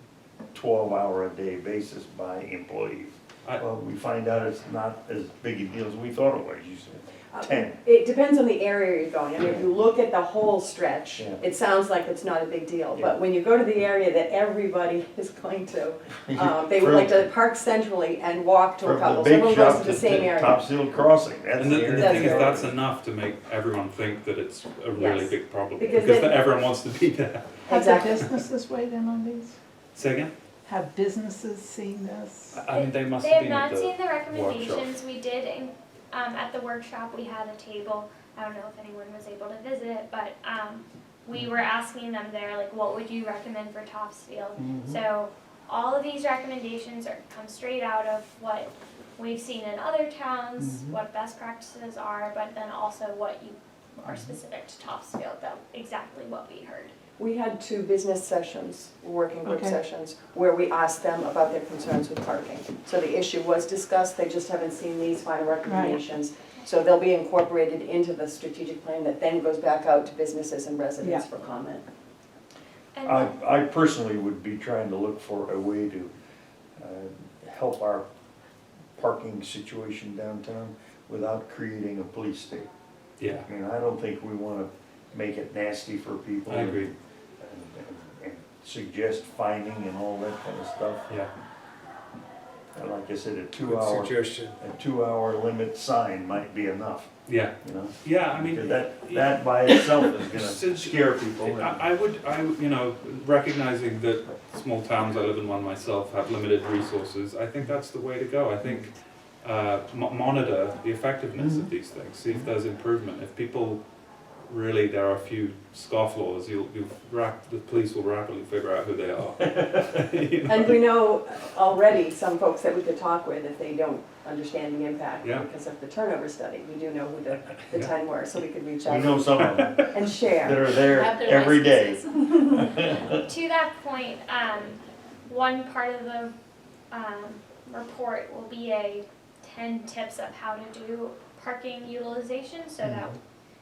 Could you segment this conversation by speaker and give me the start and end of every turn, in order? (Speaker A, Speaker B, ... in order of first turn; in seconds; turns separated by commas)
Speaker A: 0.5-7.8, Speaker B: 7.3-20.6, Speaker A: 9.4-9.7, Speaker A: 11.2-11.4, Speaker A: 16.3-17.1, Speaker A: 18.8-22.8, Speaker C: 21.6-27.7, Speaker B: 21.7-22.6, Speaker B: 24.9-26.5, Speaker B: 27.7-28.2, Speaker D: 27.7-29.6, Speaker C: 29.9-30.3, Speaker D: 30.7-32.6, Speaker C: 32.5-34.9, Speaker E: 32.7-56.9, Speaker A: 44.6-45.0, Speaker A: 50.6-51.0, Speaker A: 54.0-54.3, Speaker B: 57.2-71.8, Speaker D: 59.4-59.8, Speaker D: 65.6-66.0, Speaker E: 72.9-73.3, Speaker A: 73.0-76.1, Speaker A: 76.8-78.0, Speaker A: 79.0-82.7, Speaker C: 83.2-83.5, Speaker A: 83.4-91.1, Speaker C: 86.5-86.9, Speaker A: 92.7-97.1, Speaker C: 93.7-94.6, Speaker C: 97.3-113.8, Speaker A: 97.6-101.8, Speaker A: 111.4-111.7, Speaker C: 114.5-120.7, Speaker B: 120.5-129.4, Speaker A: 128.8-133.2, Speaker C: 129.5-129.8, Speaker B: 129.9-130.8, Speaker D: 130.8-132.6, Speaker E: 133.1-136.3, Speaker E: 136.9-143.2, Speaker A: 142.8-143.2